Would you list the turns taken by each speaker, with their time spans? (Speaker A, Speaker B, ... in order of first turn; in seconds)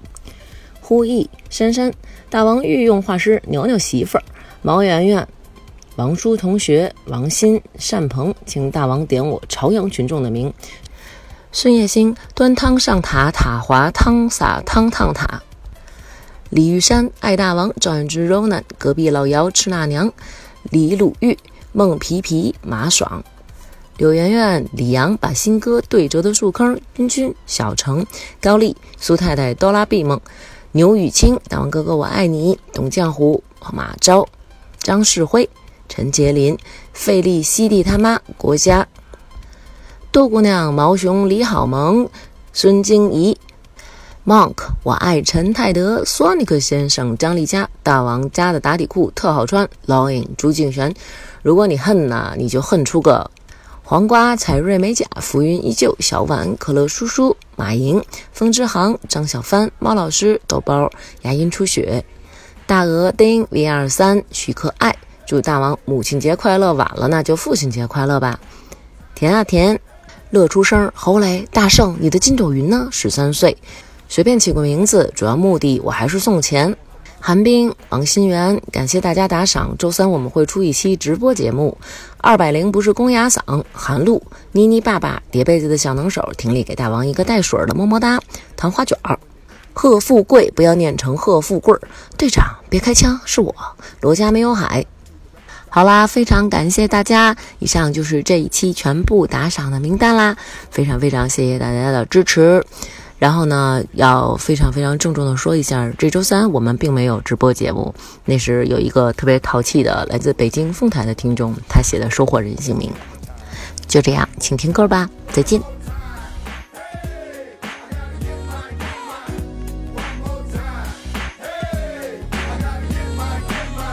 Speaker A: 0.8-5.3, 6.0-10.6, 11.5-15.4, 16.5-23.2, 24.0-34.3, 34.8-38.9, 40.1-43.4, 44.2-53.3, 53.8-62.0, 62.7-68.4, 69.2-89.2, 89.7-94.9, 95.7-113.0, 113.9-115.7